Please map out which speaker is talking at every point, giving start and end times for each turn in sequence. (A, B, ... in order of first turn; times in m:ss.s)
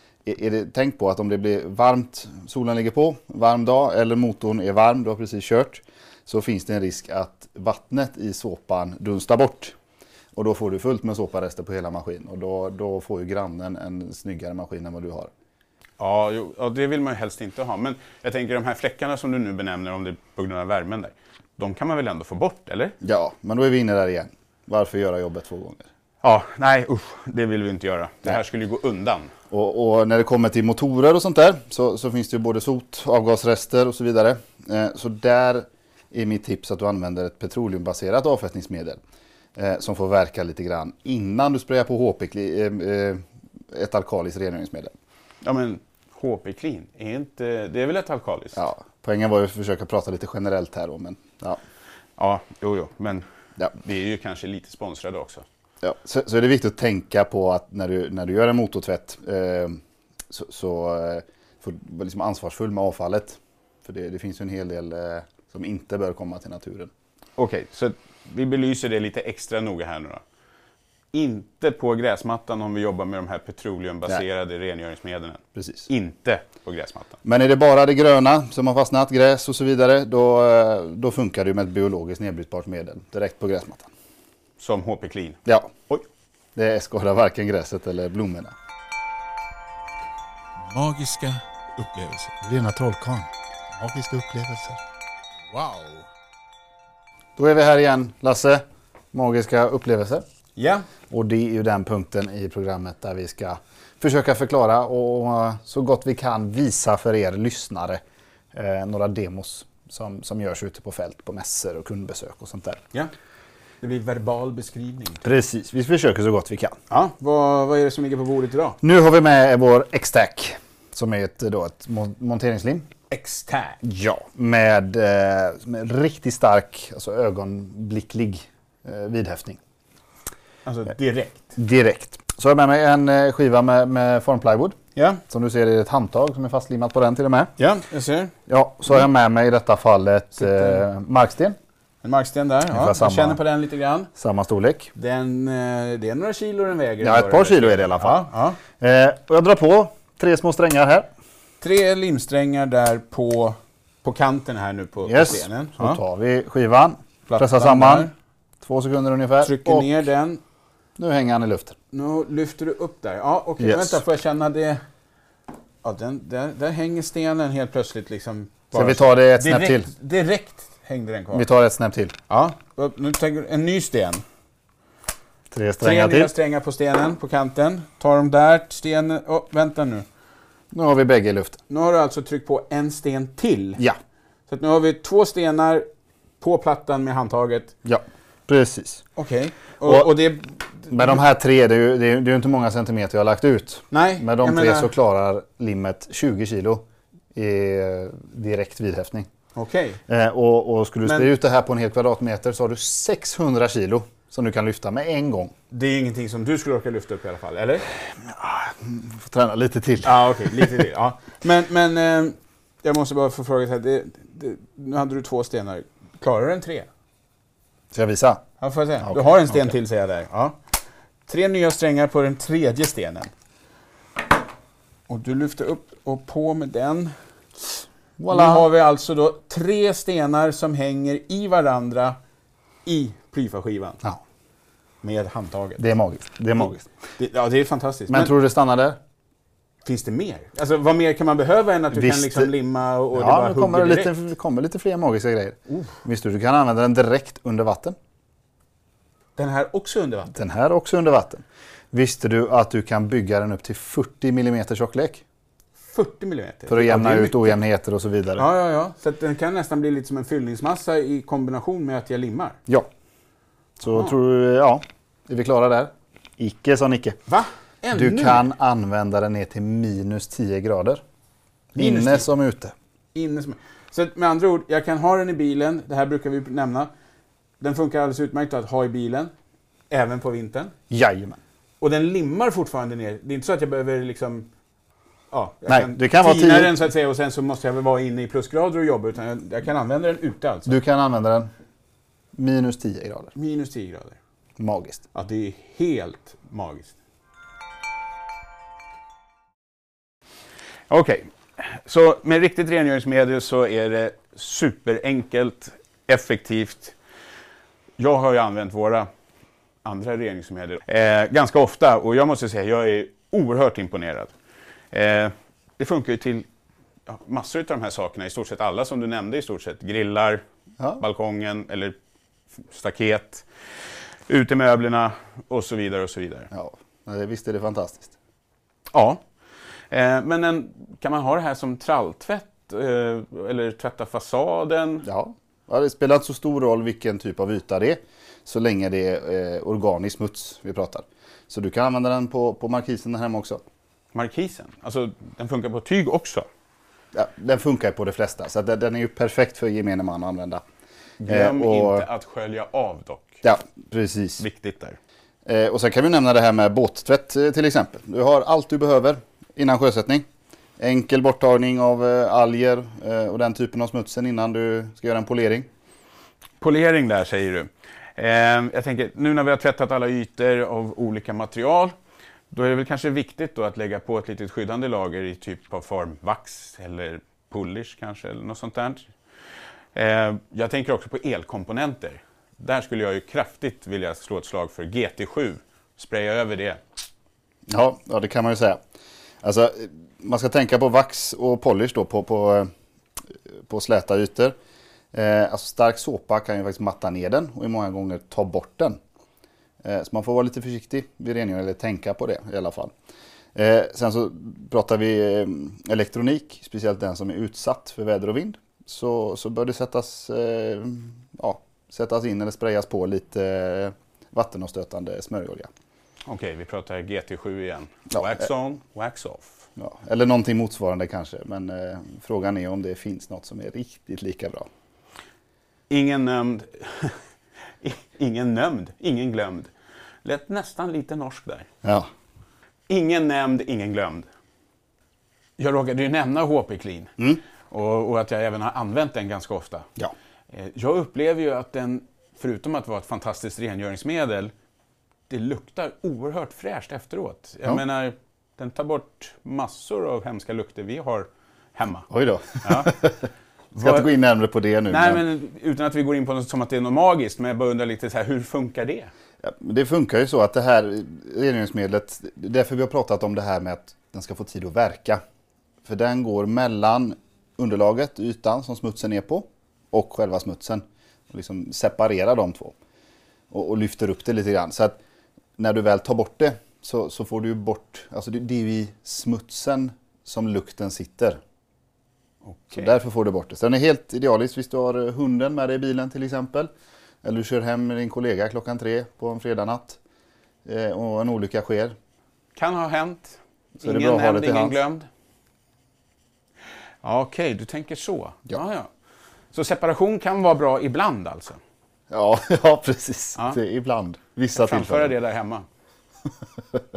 0:00.2-0:09.7 A
0:10.4-0:15.3 A
0:16.0-0:23.0 B
0:23.0-0:25.8 A
0:26.2-0:29.3 B
0:29.5-0:39.0 A
0:39.6-0:44.9 A
0:45.4-0:48.6 B
0:48.6-0:51.6 A
0:52.2-0:55.4 B
0:55.8-0:59.8 A
1:00.3-1:06.9 A
1:07.4-1:10.2 B
1:11.1-1:17.2 B
1:15.6-1:15.9 A
1:17.2-1:23.9 A
1:24.6-1:26.0 B
1:25.5-1:25.7 A
1:26.6-1:28.5 A
1:30.6-1:32.3 B
1:32.4-1:34.8 A
1:35.5-1:36.0 B
1:37.4-1:38.6 A
1:39.1-1:40.2 A
1:40.6-1:40.9 B
1:41.1-1:48.0 A
1:48.5-1:52.8 A
1:53.8-1:55.2 B
1:55.2-1:56.8 A
1:56.9-1:58.8 B
1:58.8-2:02.9 A
2:03.1-2:03.8 B
2:03.8-2:09.6 A
2:10.6-2:11.5 B
2:11.6-2:14.8 A
2:15.0-2:15.2 B
2:15.3-2:17.5 A
2:17.6-2:18.3 B
2:18.5-2:21.6 A
2:20.4-2:20.8 B
2:22.0-2:24.1 B
2:22.7-2:23.4 A
2:24.2-2:24.9 A
2:25.0-2:28.6 B
2:27.0-2:28.2 A
2:28.8-2:31.1 A
2:31.6-2:36.0 B
2:35.0-2:38.1 A
2:37.3-2:38.1 B
2:38.6-2:40.0 A
2:39.4-2:40.4 B
2:41.0-2:41.8 A
2:41.9-2:44.8 B
2:43.6-2:44.0 A
2:45.8-2:51.5 B
2:48.7-2:49.9 A
2:51.3-2:52.1 A
2:52.3-2:54.2 B
2:55.5-2:56.3 A
2:55.8-3:00.0 B
3:00.7-3:01.6 A
3:01.7-3:03.8 B
3:04.5-3:05.8 B
3:06.4-3:07.7 B
3:07.8-3:09.0 A
3:09.2-3:11.2 B
3:09.8-3:10.1 A
3:10.9-3:16.8 A
3:13.9-3:14.9 B
3:17.3-3:19.3 A
3:19.6-3:20.0 B
3:20.1-3:25.5 A
3:25.7-3:27.9 B
3:28.2-3:30.8 A
3:30.0-3:36.9 B
3:37.9-3:38.5 A
3:38.6-3:40.6 B
3:39.0-3:39.8 A
3:41.3-3:43.3 B
3:45.1-3:52.2 B
3:48.2-3:48.7 A
3:52.9-3:54.0 B
3:55.0-3:55.8 B
3:55.8-3:56.9 A
3:57.2-3:58.3 B
3:58.1-3:59.0 A
3:59.8-4:04.1 B
4:01.9-4:02.5 A
4:03.1-4:08.0 A
4:09.4-4:10.3 B
4:10.3-4:15.2 A
4:15.8-4:17.6 B
4:16.7-4:18.4 A
4:18.4-4:22.6 B
4:23.8-4:27.2 A
4:27.3-4:28.4 B
4:27.9-4:31.0 A
4:31.7-4:32.7 A
4:31.8-4:32.3 B
4:33.1-4:36.9 B
4:37.6-4:39.3 B
4:39.9-4:40.7 B
4:40.9-4:41.4 A
4:41.8-4:44.5 B
4:45.3-4:50.8 B
4:45.7-4:46.7 A
4:50.7-4:51.5 A
4:52.4-4:53.3 A
4:53.4-4:54.2 B
4:54.6-4:55.0 A
4:55.1-4:57.0 B
5:00.9-5:07.0 B
5:08.0-5:09.1 B
5:09.8-5:14.3 B
5:14.9-5:16.4 B
5:17.1-5:20.4 B
5:21.0-5:22.0 B
5:22.7-5:23.5 B
5:24.3-5:26.5 B
5:26.5-5:28.1 A
5:28.9-5:29.2 B
5:29.9-5:35.1 B
5:35.0-5:43.6 A
5:44.1-5:46.4 B
5:47.1-5:50.6 A
5:51.2-5:53.4 B
5:51.3-5:52.1 A
5:53.4-5:54.4 A
5:54.4-5:55.0 B
5:55.5-6:00.3 A
6:00.8-6:05.7 A
6:06.6-6:11.9 B
6:12.5-6:19.1 B
6:20.0-6:26.8 B
6:27.7-6:28.8 A
6:29.4-6:32.7 A
6:33.7-6:34.6 A
6:35.1-6:39.0 A
6:39.8-6:42.9 A
6:43.6-6:55.7 A
6:56.3-6:59.6 B
6:59.8-7:04.7 A
7:05.9-7:07.2 B
7:07.8-7:09.7 B
7:10.2-7:11.7 B
7:12.9-7:14.3 B
7:15.6-7:17.2 B
7:17.7-7:19.9 B
7:20.5-7:24.5 B
7:25.3-7:32.1 B
7:32.1-7:35.2 A
7:32.6-7:32.9 B
7:33.7-7:34.1 B
7:34.9-7:39.1 B
7:39.4-7:45.2 A
7:45.8-7:52.8 A
7:53.5-7:55.0 A
7:55.6-8:01.4 A
8:02.4-8:02.9 B
8:02.7-8:06.7 A
8:07.2-8:10.0 A
8:10.7-8:12.0 A
8:12.6-8:15.1 B
8:13.8-8:14.8 A
8:17.0-8:18.9 B
8:19.5-8:21.6 B
8:22.1-8:25.1 A
8:24.6-8:25.6 B